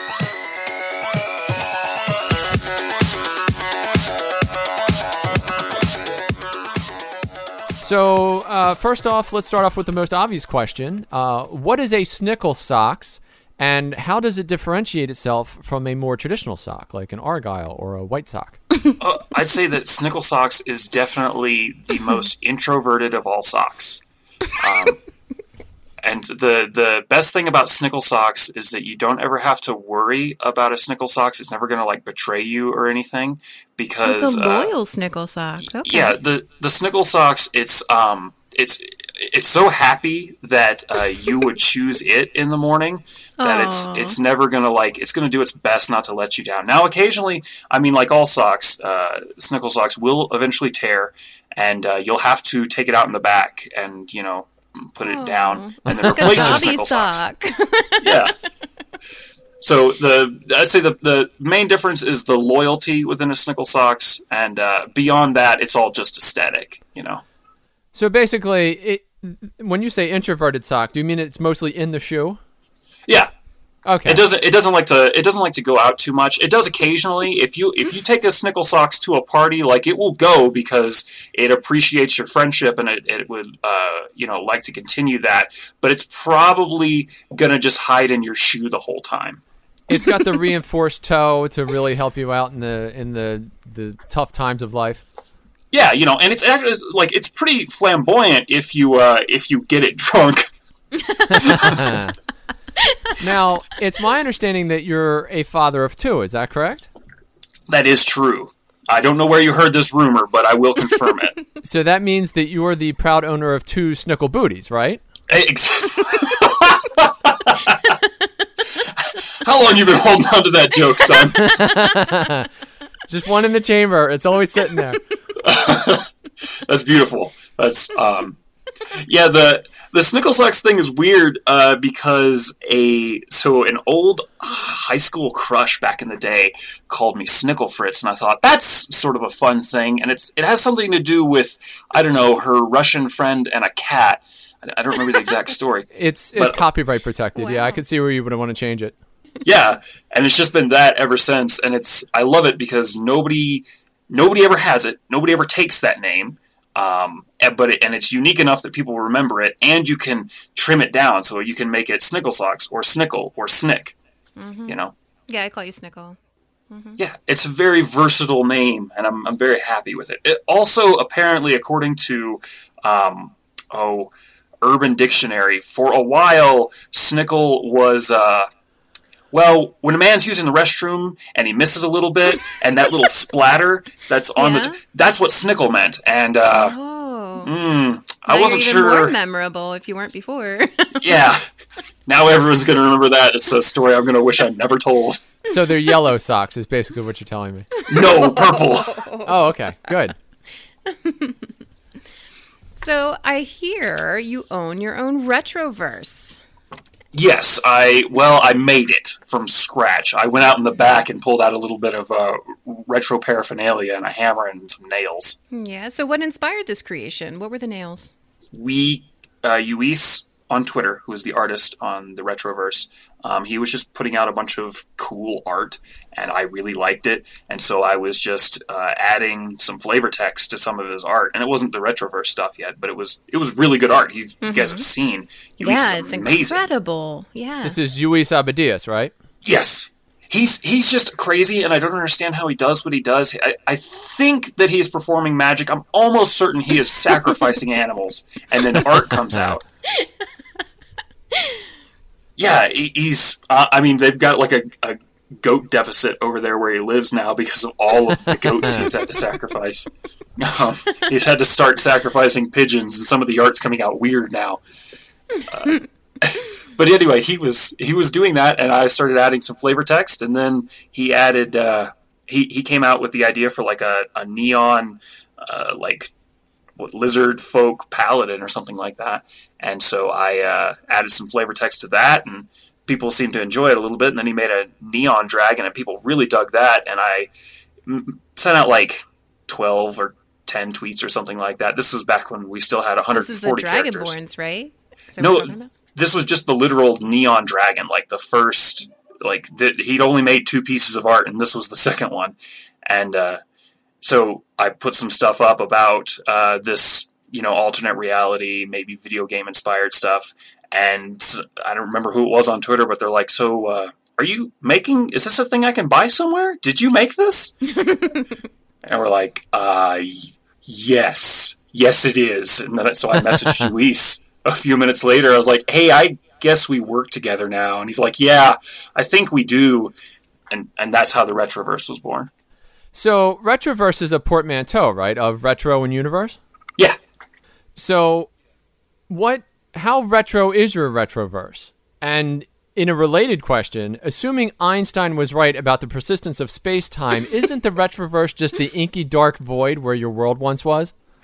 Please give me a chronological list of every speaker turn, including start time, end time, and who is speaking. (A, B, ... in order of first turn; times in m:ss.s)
0:07.8-0:18.6 A
0:19.0-0:25.0 B
0:26.0-0:34.7 B
0:34.0-0:36.2 C
0:35.8-0:57.2 B
0:43.4-0:44.2 C
0:55.0-0:58.3 C
0:55.9-0:56.6 A
0:58.0-0:58.3 B
0:59.6-1:07.2 B
1:07.9-1:12.4 A
1:13.8-1:14.2 A
1:14.0-1:29.4 B
1:29.9-1:35.0 A
1:35.7-1:40.5 B
1:41.0-1:41.7 C
1:41.4-1:42.0 B
1:41.4-1:42.1 A
1:42.8-1:43.2 C
1:43.2-1:46.9 A
1:47.7-1:51.4 B
1:51.6-1:55.0 A
1:55.3-1:57.9 B
1:58.7-2:01.6 B
2:01.4-2:02.5 A
2:03.1-2:05.0 A
2:05.4-2:06.1 B
2:06.6-2:08.4 B
2:08.9-2:26.6 B
2:25.9-2:28.9 A
2:27.4-2:27.6 C
2:29.4-2:44.0 B
2:44.4-2:44.8 C
2:44.7-2:44.9 B
2:45.3-2:46.2 C
2:46.7-2:47.0 C
2:47.0-2:58.5 B
2:59.3-3:06.8 B
3:04.4-3:04.8 C
3:06.5-3:07.5 C
3:07.4-3:09.2 B
3:08.2-3:11.3 C
3:11.0-3:11.5 B
3:12.0-3:15.3 B
3:15.5-3:17.7 A
3:17.9-3:19.1 B
3:18.0-3:19.3 C
3:19.2-3:20.1 A
3:20.9-3:21.5 C
3:22.8-3:26.4 C
3:27.1-3:35.4 B
3:35.5-3:38.1 C
3:38.5-3:56.7 B
3:54.4-3:54.9 C
3:55.6-3:57.8 C
3:57.6-3:59.1 A
3:59.4-4:09.6 B
4:12.4-4:24.6 B
4:25.5-4:36.1 B
4:36.8-4:47.3 B
4:47.8-4:54.2 B
4:53.1-4:55.7 C
4:55.2-5:03.4 B
5:04.0-5:17.8 B
5:17.9-5:18.2 C
5:18.8-5:29.9 B
5:30.5-5:32.3 B
5:32.9-5:36.4 A
5:37.8-5:38.3 A
5:39.1-5:50.9 A